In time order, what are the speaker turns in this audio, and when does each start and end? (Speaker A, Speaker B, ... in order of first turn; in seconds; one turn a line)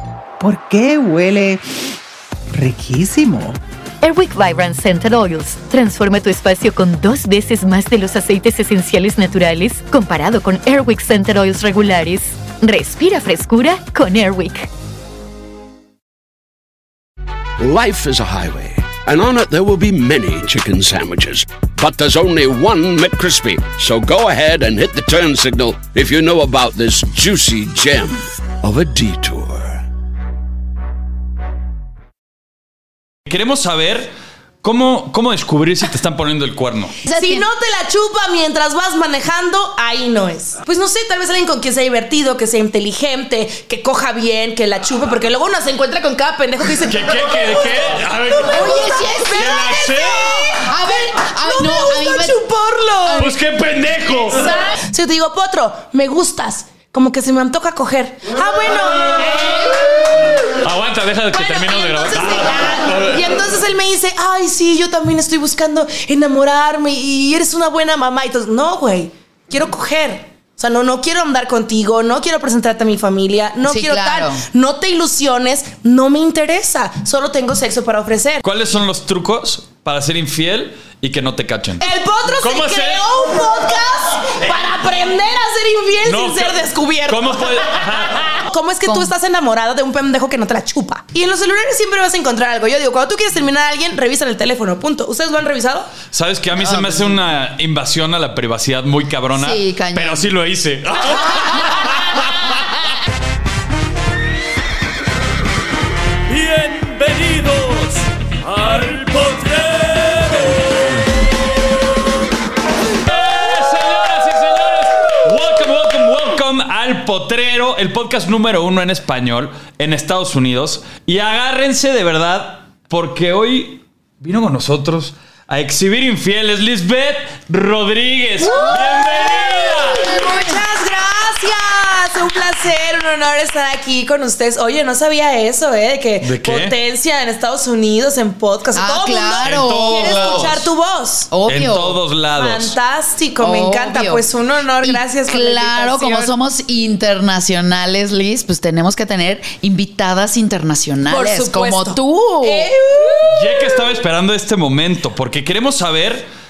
Speaker A: 0.4-1.9
Speaker A: 2.5-3.6
Speaker B: 4.0-14.7
Speaker C: 17.6-29.8
Speaker D: 33.3-34.1
Speaker D: 34.6-36.9
Speaker E: 37.0-37.5
Speaker F: 37.1-53.4
Speaker D: 46.9-50.5
Speaker E: 48.5-52.4
Speaker E: 53.0-53.4
Speaker D: 53.2-54.5
Speaker F: 54.3-60.3
Speaker D: 60.6-63.2
Speaker F: 61.3-78.4
Speaker E: 73.6-74.4
Speaker D: 78.4-81.9
Speaker F: 81.8-96.0
Speaker D: 82.4-83.0
Speaker D: 86.0-88.4
Speaker E: 88.8-89.1
Speaker D: 96.1-102.6
Speaker E: 96.5-97.2
Speaker E: 99.3-100.3
Speaker D: 106.3-110.7
Speaker D: 113.0-130.1
Speaker E: 128.4-128.9
Speaker F: 128.4-141.3
Speaker E: 129.8-130.6
Speaker D: 136.2-136.8
Speaker E: 138.7-140.6
Speaker D: 139.4-140.7
Speaker E: 141.3-142.0
Speaker D: 141.4-142.7
Speaker F: 142.4-146.3
Speaker E: 143.4-144.2
Speaker E: 144.8-152.7
Speaker F: 151.1-153.8
Speaker D: 153.3-156.2